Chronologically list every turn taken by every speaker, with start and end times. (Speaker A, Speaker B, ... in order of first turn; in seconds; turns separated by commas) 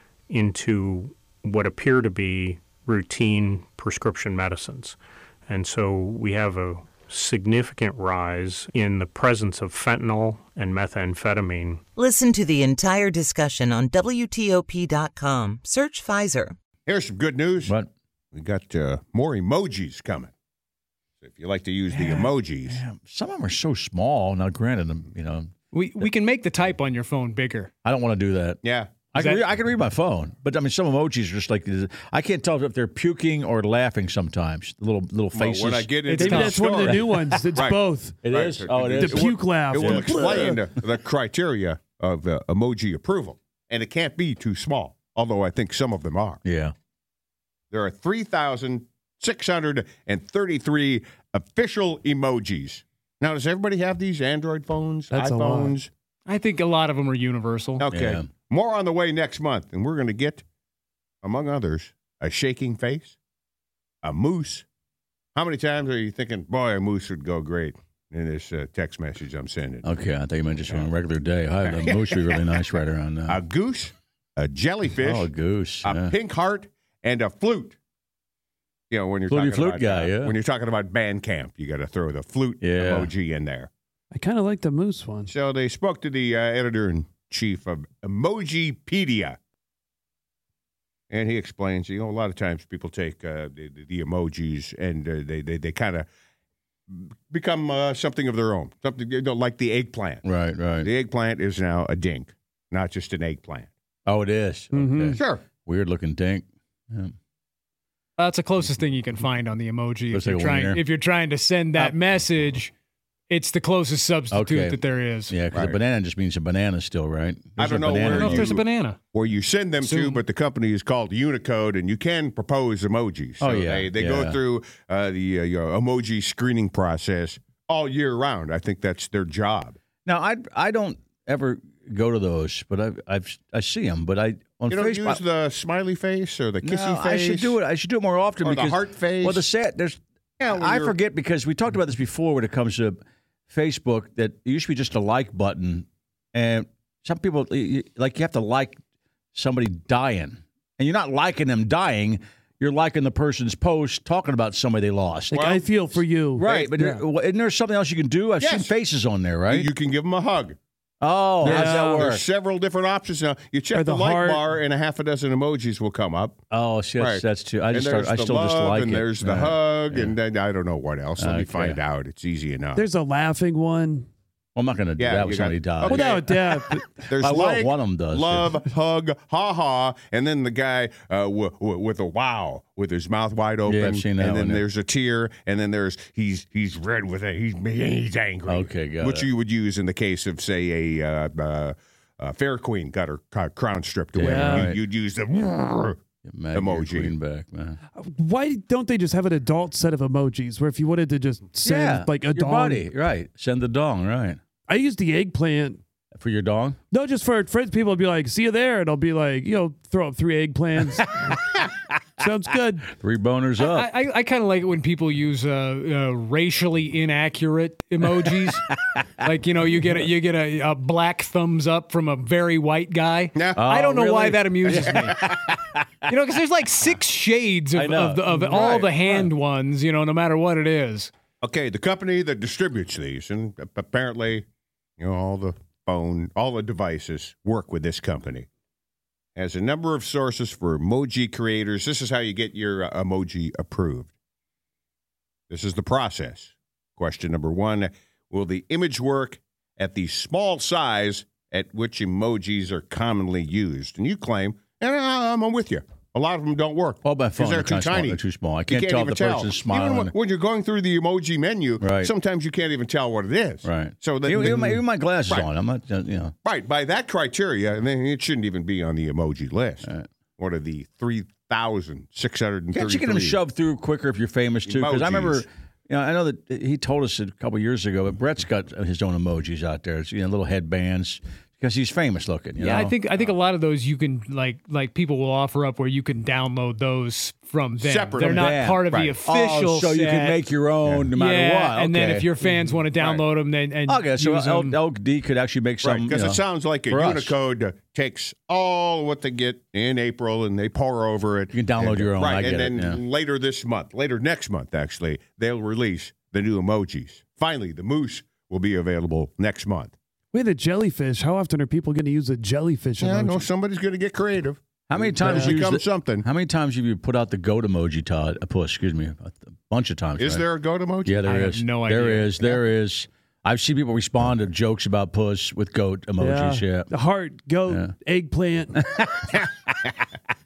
Speaker A: 0.3-11.8, Speaker B: 11.9-16.5, Speaker C: 16.9-17.7, Speaker D: 17.6-17.9, Speaker C: 18.3-20.3, Speaker C: 21.2-22.8, Speaker D: 21.9-25.5, Speaker E: 25.7-27.7, Speaker D: 27.8-28.6, Speaker C: 28.6-29.1, Speaker D: 29.1-36.0, Speaker E: 29.1-29.4, Speaker C: 35.3-37.8, Speaker E: 36.0-36.9, Speaker F: 36.2-38.3, Speaker D: 36.8-37.4, Speaker D: 38.2-40.2, Speaker C: 38.3-46.4, Speaker F: 39.0-40.6, Speaker D: 46.4-46.7, Speaker C: 47.7-55.9, Speaker F: 55.1-55.8, Speaker E: 56.3-57.8, Speaker C: 57.8-60.4, Speaker D: 57.9-58.3, Speaker C: 61.2-63.1, Speaker C: 64.0-64.6, Speaker C: 65.3-69.9, Speaker D: 69.8-73.4, Speaker C: 71.6-72.4, Speaker C: 73.3-75.3, Speaker D: 75.0-76.1, Speaker C: 75.8-77.8, Speaker C: 78.9-83.7, Speaker D: 79.3-80.3, Speaker D: 82.6-83.1, Speaker F: 84.1-85.3, Speaker C: 85.3-89.4, Speaker C: 91.1-96.0, Speaker C: 96.9-100.2, Speaker D: 100.2-100.9, Speaker C: 100.8-103.7, Speaker D: 104.0-107.1, Speaker F: 104.7-105.2, Speaker C: 105.2-105.4, Speaker E: 108.2-112.7, Speaker D: 110.1-110.8, Speaker E: 113.3-115.4, Speaker D: 114.3-118.6, Speaker C: 115.5-115.8, Speaker C: 117.6-129.8, Speaker E: 118.0-119.0, Speaker E: 119.8-120.2, Speaker D: 123.4-124.4, Speaker D: 130.1-135.2, Speaker C: 134.7-137.6, Speaker D: 136.6-148.8, Speaker C: 138.4-139.5, Speaker C: 140.4-141.0, Speaker D: 149.3-155.4, Speaker F: 155.3-157.0, Speaker C: 155.4-155.6, Speaker D: 156.4-159.7, Speaker C: 156.4-156.7, Speaker C: 158.4-158.7, Speaker C: 159.5-160.6, Speaker D: 161.0-162.2, Speaker F: 161.4-162.1, Speaker C: 161.4-166.4, Speaker F: 163.7-164.4, Speaker D: 166.5-170.1, Speaker C: 167.0-172.8, Speaker D: 171.2-171.8, Speaker F: 172.7-174.1, Speaker D: 174.5-176.2, Speaker C: 175.0-176.4, Speaker F: 175.8-177.0, Speaker C: 177.1-196.0, Speaker D: 177.2-178.5, Speaker D: 183.7-184.6, Speaker D: 188.4-189.2, Speaker D: 194.2-194.8, Speaker F: 194.2-194.8, Speaker D: 196.2-197.8, Speaker C: 196.5-197.1, Speaker F: 197.9-202.9, Speaker D: 201.6-204.4, Speaker F: 204.7-205.8, Speaker D: 206.1-206.8, Speaker F: 206.9-211.3, Speaker F: 212.2-212.9, Speaker D: 212.9-213.9, Speaker E: 213.6-218.6, Speaker E: 219.2-225.2, Speaker C: 223.3-223.7, Speaker D: 223.6-225.8, Speaker C: 224.7-225.4, Speaker E: 226.1-231.1, Speaker D: 227.8-228.4, Speaker C: 228.3-229.3, Speaker C: 231.4-234.4, Speaker C: 235.0-238.5, Speaker C: 239.3-244.1, Speaker C: 245.5-265.5, Speaker D: 257.0-260.1, Speaker D: 261.8-262.1, Speaker D: 263.6-266.3, Speaker C: 266.4-273.4, Speaker D: 272.7-282.9, Speaker C: 274.6-275.4, Speaker E: 282.6-290.4, Speaker C: 287.8-289.2, Speaker D: 288.2-292.3, Speaker E: 291.1-294.8, Speaker C: 292.4-293.2, Speaker D: 293.9-297.4, Speaker C: 295.8-309.9, Speaker D: 301.5-303.0, Speaker F: 310.3-313.5, Speaker C: 313.0-316.2, Speaker D: 314.9-320.4, Speaker F: 315.2-315.5, Speaker C: 320.2-321.2, Speaker D: 321.0-326.9, Speaker E: 321.2-322.4, Speaker F: 326.2-328.8